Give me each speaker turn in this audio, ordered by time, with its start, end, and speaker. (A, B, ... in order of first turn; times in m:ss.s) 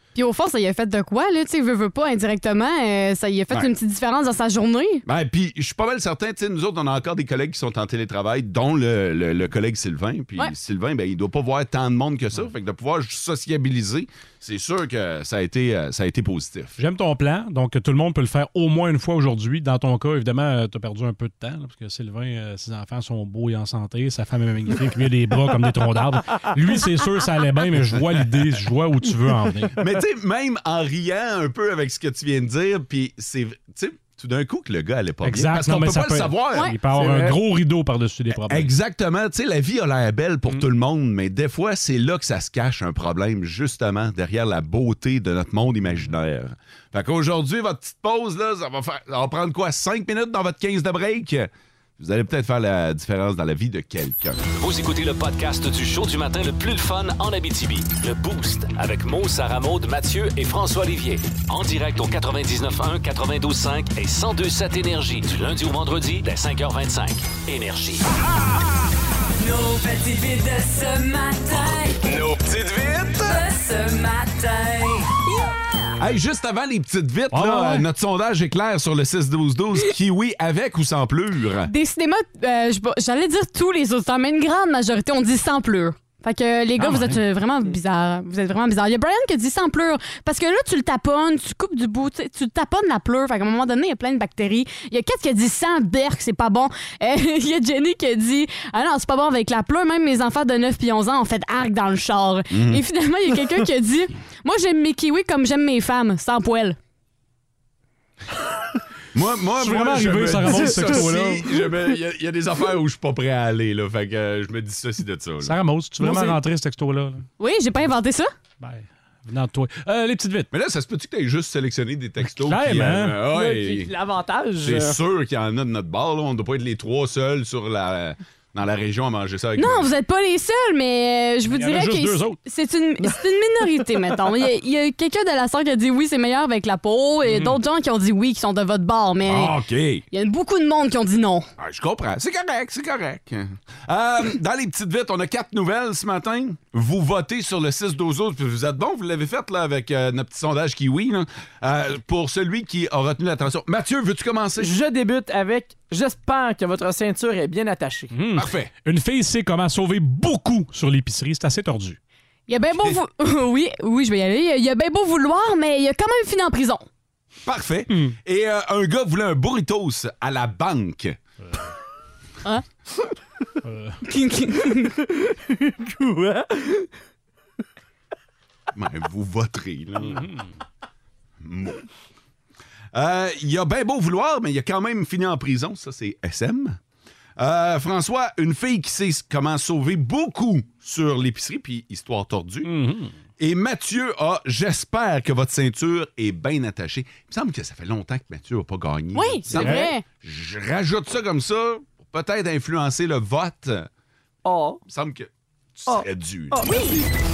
0:00.1-0:05.0 A
0:05.0-0:16.8 B
0:16.8-0:29.8 C
0:29.8-0:36.7 B
0:35.2-0:38.7 C
0:36.9-0:37.4 D
0:38.3-0:54.4 B
0:54.5-1:08.0 E
1:09.4-1:11.3 F
1:13.5-1:14.8 F
1:16.0-1:21.7 B
1:17.3-1:17.8 C
1:21.6-1:46.8 A
1:26.8-1:27.2 C
1:42.5-1:42.8 B
1:49.1-1:55.5 B
1:49.6-1:51.5 C
1:55.4-1:57.2 C
1:56.0-1:56.3 D
1:57.4-1:58.3 A
1:58.6-2:00.5 C
2:00.5-2:03.9 B
2:02.3-2:03.2 C
2:03.2-2:05.0 D
2:04.6-2:09.9 B
2:09.6-2:19.6 A
2:11.5-2:12.4 C
2:17.2-2:17.6 C
2:19.2-2:20.0 B
2:20.1-2:21.5 A
2:21.6-2:34.7 B
2:34.6-2:38.1 D
2:38.1-2:42.0 C
2:38.3-2:38.7 B
2:42.5-2:46.8 A
2:47.4-2:51.2 B
2:53.6-2:54.0 C
2:54.0-2:54.9 A
2:55.3-2:56.9 D
2:58.7-3:00.3 B
3:00.1-3:00.4 C
3:01.4-3:01.8 B
3:02.9-3:06.8 B
3:07.4-3:12.7 B
3:12.6-3:13.1 C
3:13.4-3:23.9 B
3:19.1-3:20.0 A
3:24.4-3:24.8 D
3:24.9-3:26.7 B
3:25.9-3:27.0 D